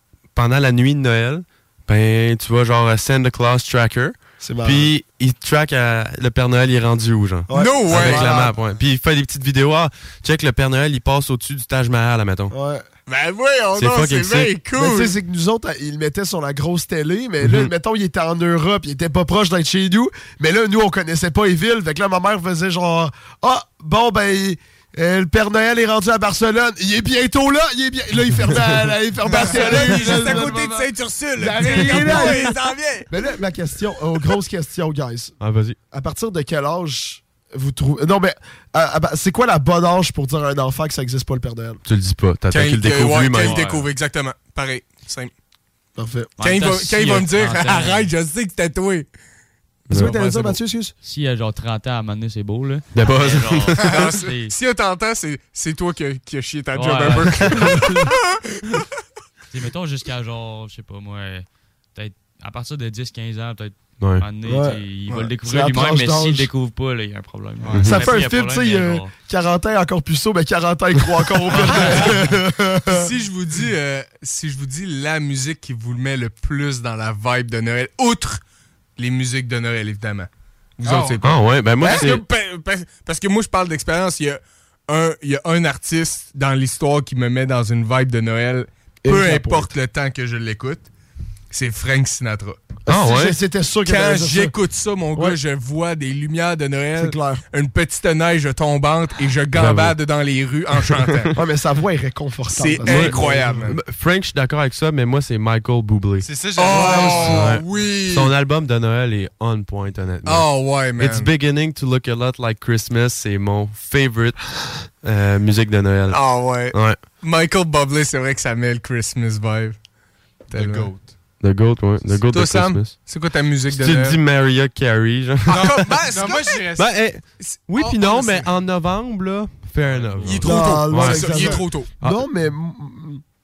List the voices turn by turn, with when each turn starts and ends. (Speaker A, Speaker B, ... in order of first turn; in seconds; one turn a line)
Speaker A: 0.3-12.5
Speaker B: 4.4-4.9
Speaker B: 7.5-8.5
Speaker C: 7.5-8.5
Speaker D: 8.1-8.8
Speaker B: 12.5-12.8
Speaker C: 13.1-15.1
Speaker A: 13.7-14.6
Speaker B: 14.8-32.5
Speaker A: 17.4-17.7
Speaker C: 29.3-33.1
Speaker A: 31.9-32.2
Speaker B: 33.1-35.4
Speaker A: 35.4-35.8
Speaker B: 35.9-41.8
Speaker A: 41.8-43.7
Speaker C: 42.5-45.3
Speaker E: 43.3-43.9
Speaker B: 46.0-46.3
Speaker E: 46.4-48.1
Speaker C: 46.4-49.1
Speaker C: 49.9-50.6
Speaker B: 49.9-50.9
Speaker E: 51.0-54.5
Speaker A: 52.9-53.9
Speaker C: 53.8-57.9
Speaker E: 56.7-58.0
Speaker E: 59.5-69.1
Speaker A: 64.0-64.2
Speaker B: 64.4-66.5
Speaker D: 67.6-68.1
Speaker A: 67.7-68.0
Speaker B: 67.8-73.1
Speaker D: 71.7-72.0
Speaker C: 71.7-72.2
Speaker C: 72.8-78.4
Speaker C: 79.0-90.9
Speaker D: 80.8-81.2
Speaker A: 81.2-82.2
Speaker D: 81.8-82.1
Speaker B: 89.0-89.7
Speaker C: 91.5-92.6
Speaker B: 92.8-94.5
Speaker A: 92.9-93.4
Speaker C: 93.8-101.3
Speaker B: 97.0-97.4
Speaker A: 99.5-100.0
Speaker A: 100.9-101.3
Speaker B: 101.3-103.4
Speaker C: 102.5-103.8
Speaker A: 102.8-117.0
Speaker D: 106.2-107.6
Speaker C: 106.5-108.3
Speaker B: 106.8-107.3
Speaker C: 110.2-111.3
Speaker C: 116.1-119.8
Speaker D: 120.5-121.2
Speaker C: 120.5-120.9
Speaker A: 121.4-126.1
Speaker C: 122.3-124.2
Speaker D: 125.5-127.0
Speaker C: 125.5-126.6
Speaker A: 126.7-132.2
Speaker C: 127.3-128.5
Speaker D: 129.8-131.4
Speaker C: 130.2-131.9
Speaker B: 130.4-133.2